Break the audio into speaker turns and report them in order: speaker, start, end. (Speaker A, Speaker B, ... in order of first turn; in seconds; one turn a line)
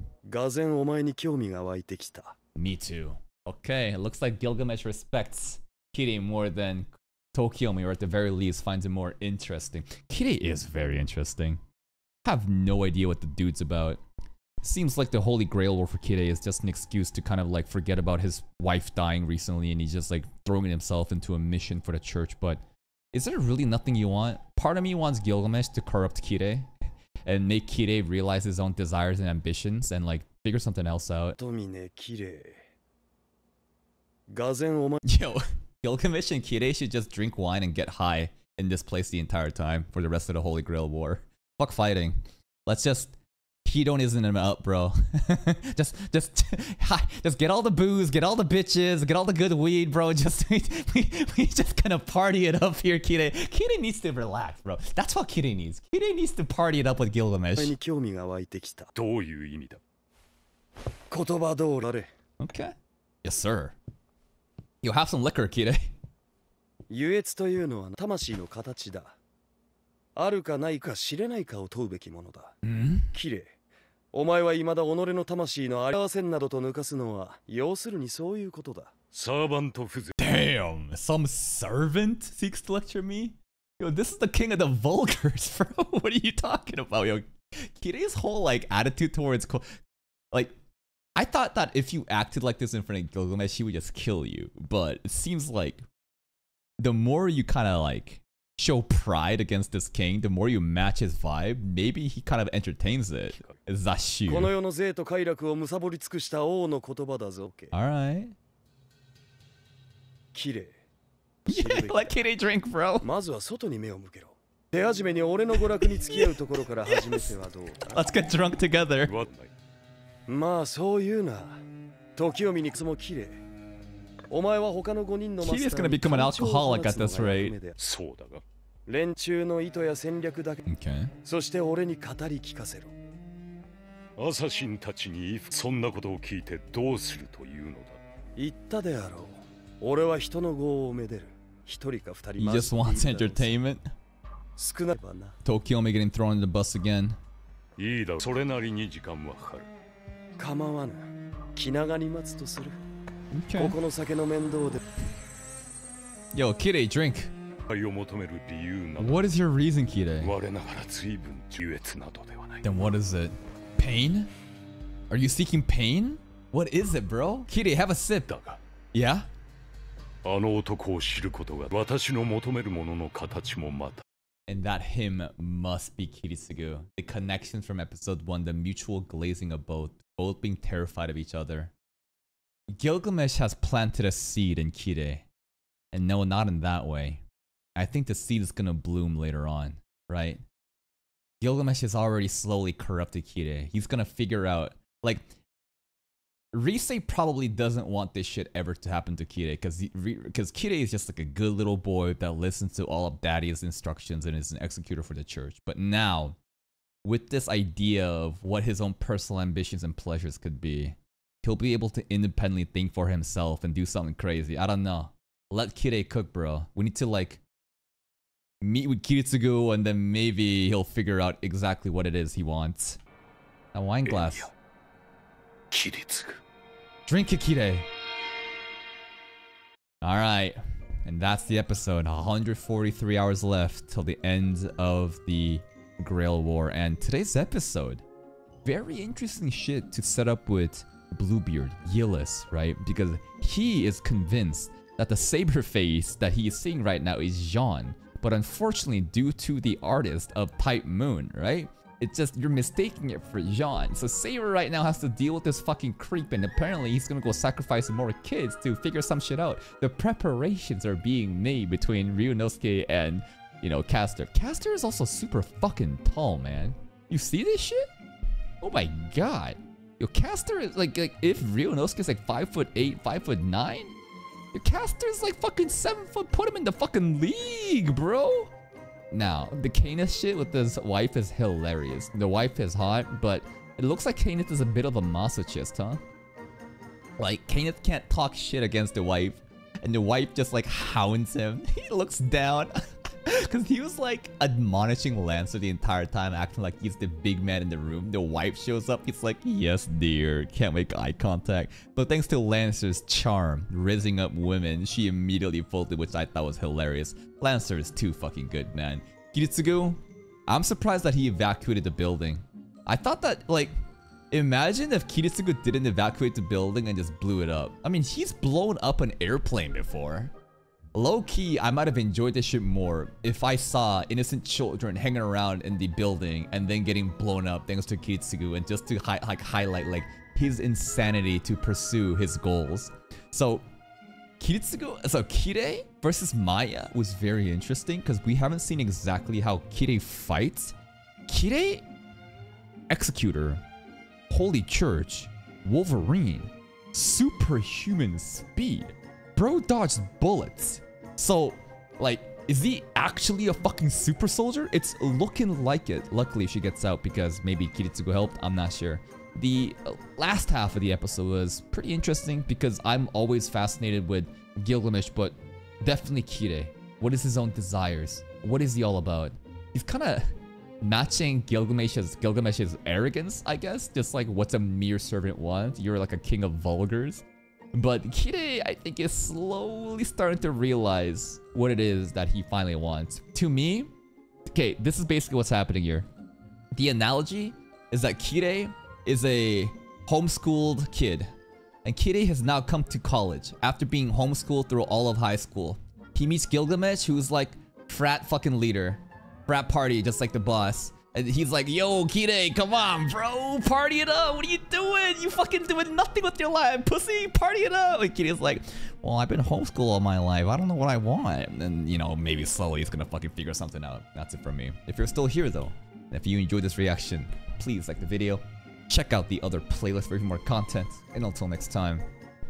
Speaker A: 0.3-2.3
Speaker B: 2.5-11.6
Speaker B: 12.2-14.0
Speaker B: 14.6-26.7
Speaker B: 27.2-31.4
Speaker A: 31.4-32.6
Speaker A: 34.3-35.0
Speaker B: 35.0-57.7
Speaker A: 57.5-58.9
Speaker C: 58.9-59.8
Speaker A: 61.1-62.1
Speaker B: 62.4-63.7
Speaker B: 64.8-65.9
Speaker A: 66.9-69.1
Speaker A: 70.2-72.5
Speaker B: 72.6-73.1
Speaker A: 73.1-73.5
Speaker A: 74.1-78.9
Speaker C: 79.1-80.1
Speaker B: 80.2-89.7
Speaker B: 91.2-95.8
Speaker B: 96.8-104.5
Speaker A: 104.3-107.7
Speaker B: 107.7-108.3
Speaker A: 110.3-110.8
Speaker B: 111.5-113.1
Speaker A: 111.5-112.1
Speaker A: 113.0-118.1
Speaker B: 115.8-117.3
Speaker B: 117.9-119.1
Speaker C: 119.0-119.5
Speaker A: 120.3-121.6
Speaker A: 122.2-123.4
Speaker A: 124.3-127.7
Speaker B: 125.4-127.5
Speaker C: 127.8-128.4
Speaker A: 128.9-130.6
Speaker B: 130.7-131.1
Speaker A: 131.2-132.9
Speaker C: 134.2-138.0
Speaker A: 138.4-143.5
Speaker B: 142.4-143.9
Speaker A: 144.6-145.4
Speaker B: 145.4-147.2
Speaker C: 147.8-149.7
Speaker A: 150.4-152.8
Speaker B: 153.3-153.8
Speaker A: 153.5-154.8
Speaker B: 156.3-157.3
Speaker C: 157.7-159.3
Speaker B: 159.0-160.3
Speaker C: 160.2-162.7
Speaker B: 162.6-164.3
Speaker B: 165.1-168.4
Speaker C: 168.3-168.6
Speaker B: 168.9-169.3
Speaker C: 170.2-174.0
Speaker B: 174.5-181.7
Speaker B: 182.7-185.2
Speaker B: 185.9-187.2
Speaker B: 187.8-190.4
Speaker B: 191.4-195.3
Speaker B: 196.5-206.4
Speaker B: 207.0-217.4
Speaker B: 218.6-223.0
Speaker B: 223.7-224.5
Speaker C: 224.1-224.5
Speaker C: 225.7-226.4
Speaker B: 227.1-227.8
Speaker B: 230.0-238.0
Speaker B: 238.6-267.9
Speaker B: 268.6-273.9
Speaker B: 274.5-278.5
Speaker B: 279.1-286.0
Speaker B: 287.2-292.7
Speaker B: 293.2-313.7
Speaker B: 314.3-320.3
Speaker B: 320.9-333.6
Speaker B: 334.4-340.8
Speaker B: 341.3-341.9
Speaker B: 342.9-343.6
Speaker B: 344.3-370.3
Speaker B: 370.8-383.9
Speaker B: 384.5-386.1
Speaker B: 386.7-391.3
Speaker B: 391.9-422.1